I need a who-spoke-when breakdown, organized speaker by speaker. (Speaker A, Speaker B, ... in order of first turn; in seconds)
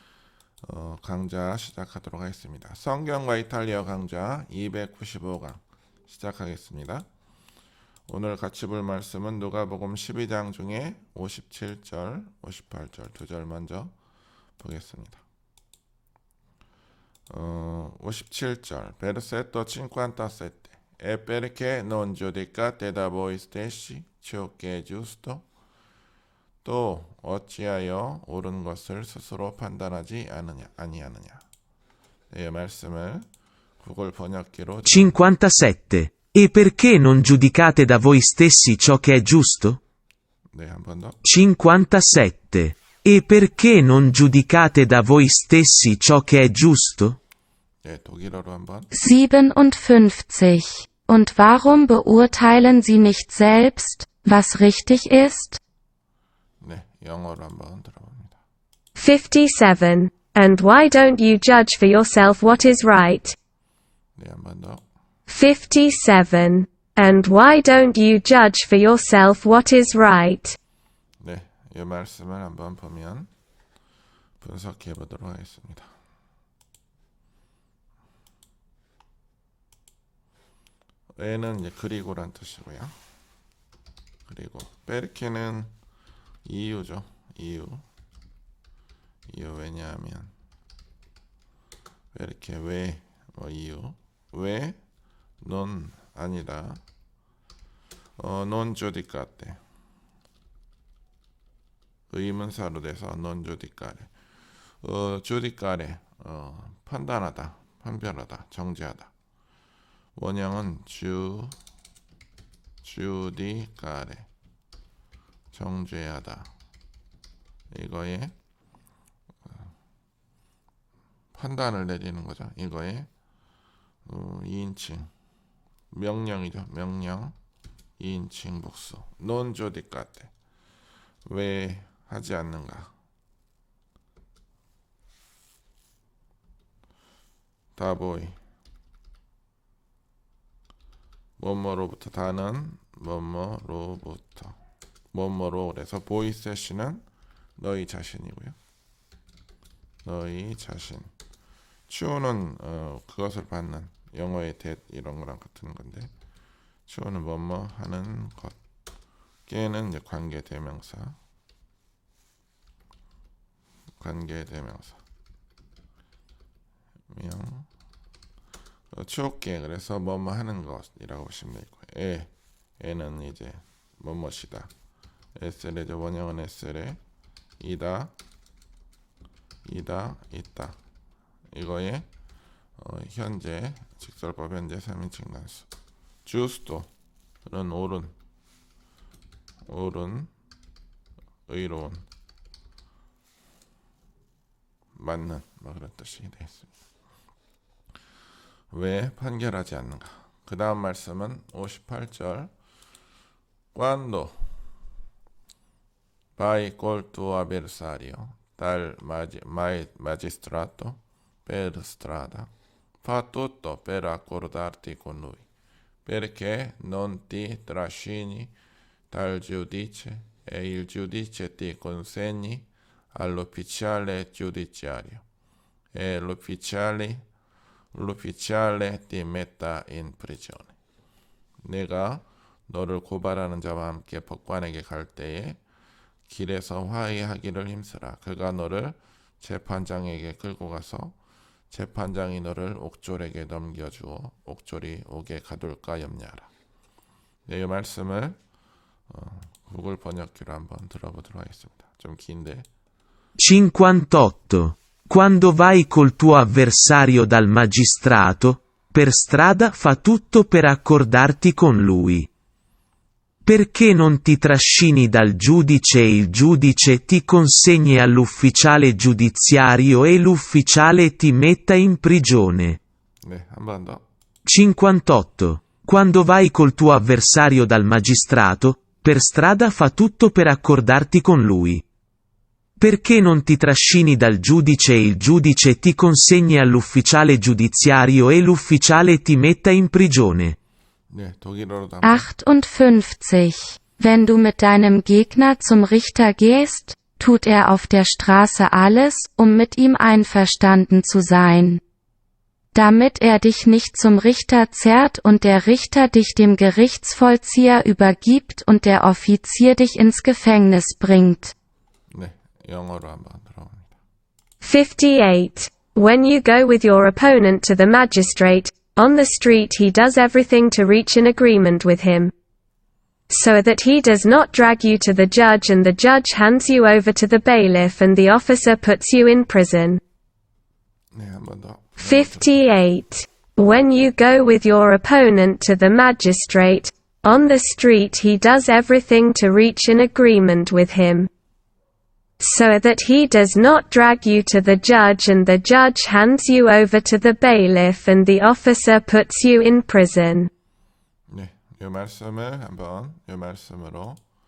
Speaker A: 0.6-7.0, 8.1-13.9, 14.6-15.2, 17.3-25.4, 26.6-31.4, 32.3-33.3, 33.8-35.2, 40.5-41.2, 47.8-48.9, 56.6-58.4, 64.2-64.8, 71.2-73.3, 74.4-75.9, 81.2-83.0, 84.2-85.7, 86.4-87.8, 89.3-90.3, 92.1-94.8, 95.4-96.8, 98.2-99.6, 102.1-104.1, 104.8-109.1, 110.1-111.6, 112.8-114.3, 115.5-116.5, 117.7-118.3, 121.3-123.1, 124.0-125.1, 125.9-127.3, 128.0-130.3, 131.2-132.9, 137.8-138.4, 141.4-144.6, 145.1-147.0, 147.6-148.6, 150.0-151.1, 151.9-156.1, 156.9-158.6, 159.4-161.2, 164.0-165.0, 167.1-167.7, 168.9-174.7, 175.3-177.0, 177.6-178.1, 179.6-180.8, 181.5-182.1, 182.8-185.7, 186.2-186.9, 187.4-188.1, 189.7-190.3, 191.5-192.0, 194.9-196.7, 198.7-202.5, 203.7-204.6, 206.4-212.5, 213.0-215.4, 216.0-218.5, 219.1-225.2, 225.9-227.2, 227.9-230.7, 231.6-235.6, 236.3-241.2, 241.7-246.5, 247.4-248.4, 249.1-252.7, 273.2-274.0, 291.1-292.3, 312.1-314.0, 331.1-332.6, 351.3-354.2
Speaker B: 34.9-39.8, 41.2-47.2, 253.4-262.3, 263.4-272.8, 274.4-281.8, 282.8-290.6
Speaker C: 48.9-55.6, 292.0-301.8, 302.7-311.5
Speaker D: 59.0-63.4, 65.3-70.5, 314.6-322.3, 323.3-330.0, 332.0-341.3, 342.4-350.5